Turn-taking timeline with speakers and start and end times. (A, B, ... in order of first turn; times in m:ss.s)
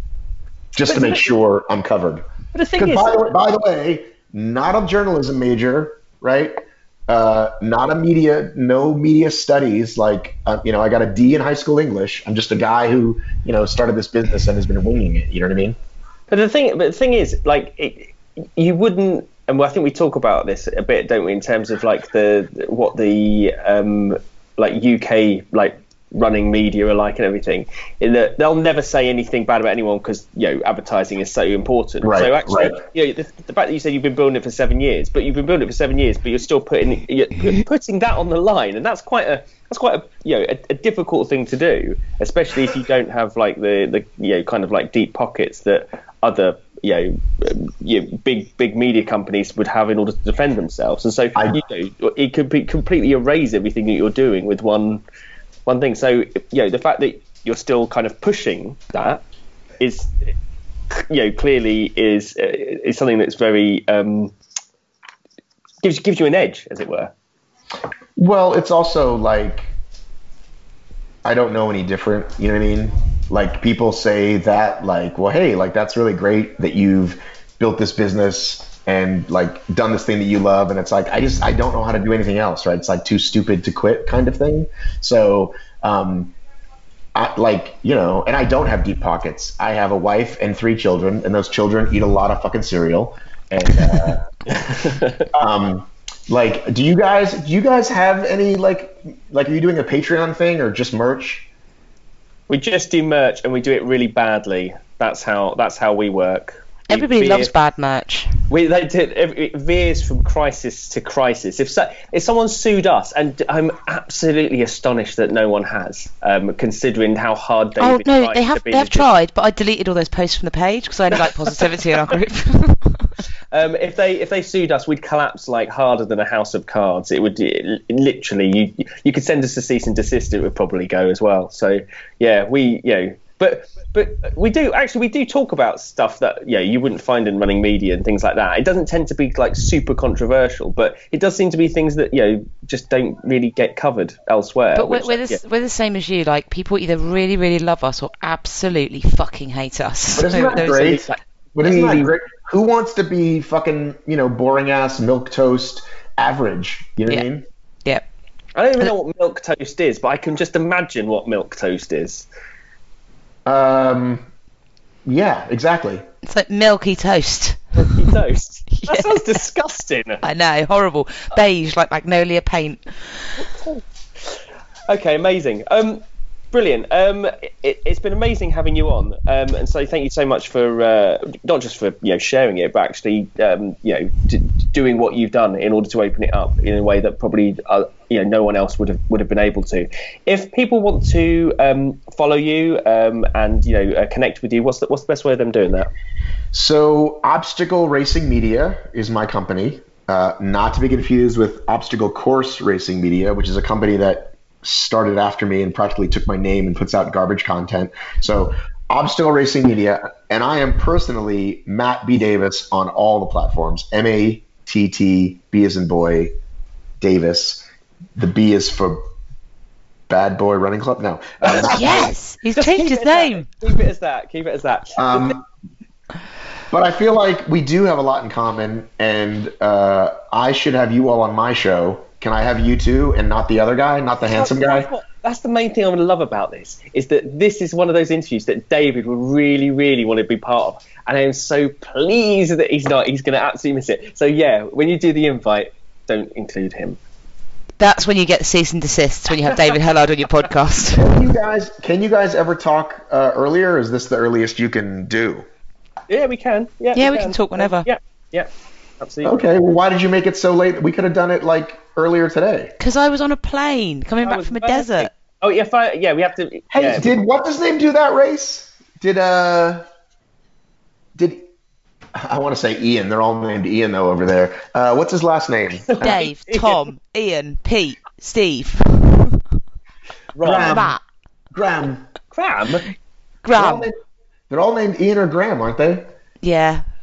0:00.7-0:02.2 A
0:00.8-0:01.2 B
0:02.5-0:03.2 B
0:02.8-0:15.8 A
0:16.3-0:55.0 B
0:32.0-0:32.8 A
0:55.6-0:59.2 B
0:59.8-1:00.3 B
1:00.9-1:04.3 B
1:05.8-1:07.1 B
1:08.2-1:09.7 A
1:11.2-1:26.3 A
1:27.1-1:34.3 A
1:34.5-1:35.3 B
1:35.3-1:41.5 A
1:42.5-1:47.5 B
1:46.9-1:48.4 C
1:48.5-1:59.1 B
1:57.8-2:03.0 C
2:01.1-2:02.0 B
2:03.5-2:25.4 B
2:24.7-2:31.0 C
2:30.1-2:37.4 A
2:30.5-2:31.0 B
2:31.6-2:32.1 B
2:38.6-2:42.2 B
2:43.4-2:44.2 A
2:45.0-2:46.0 A
2:46.2-2:48.1 C
2:47.7-2:50.2 B
2:48.7-2:49.4 C
2:50.2-2:52.8 C
2:53.4-2:53.8 B
2:54.9-3:15.9 B
3:16.5-3:36.3 A
3:37.0-3:37.6 A
3:38.2-3:39.0 A
3:40.1-3:42.1 A
3:41.6-3:43.5 C
3:41.8-3:45.3 B
3:45.0-3:45.4 A
3:46.7-3:54.9 A
3:54.2-4:07.0 B
4:07.8-4:11.2 C
4:09.4-4:09.8 B
4:10.9-4:15.4 A
4:16.1-4:19.4 B
4:16.9-4:17.9 C
4:19.2-4:22.7 A
4:22.8-4:25.1 C
4:24.2-4:27.2 B
4:26.7-4:29.8 A
4:31.2-4:31.5 A
4:32.1-4:36.1 A
4:35.9-4:36.8 B
4:36.0-4:39.4 C
4:40.4-4:40.8 B
4:40.4-4:41.0 A
4:40.7-4:41.0 C
4:41.5-4:42.0 A
4:42.3-4:42.8 B
4:43.4-4:43.9 C
4:43.5-4:44.0 A
4:44.5-4:46.1 A
4:46.4-4:46.8 C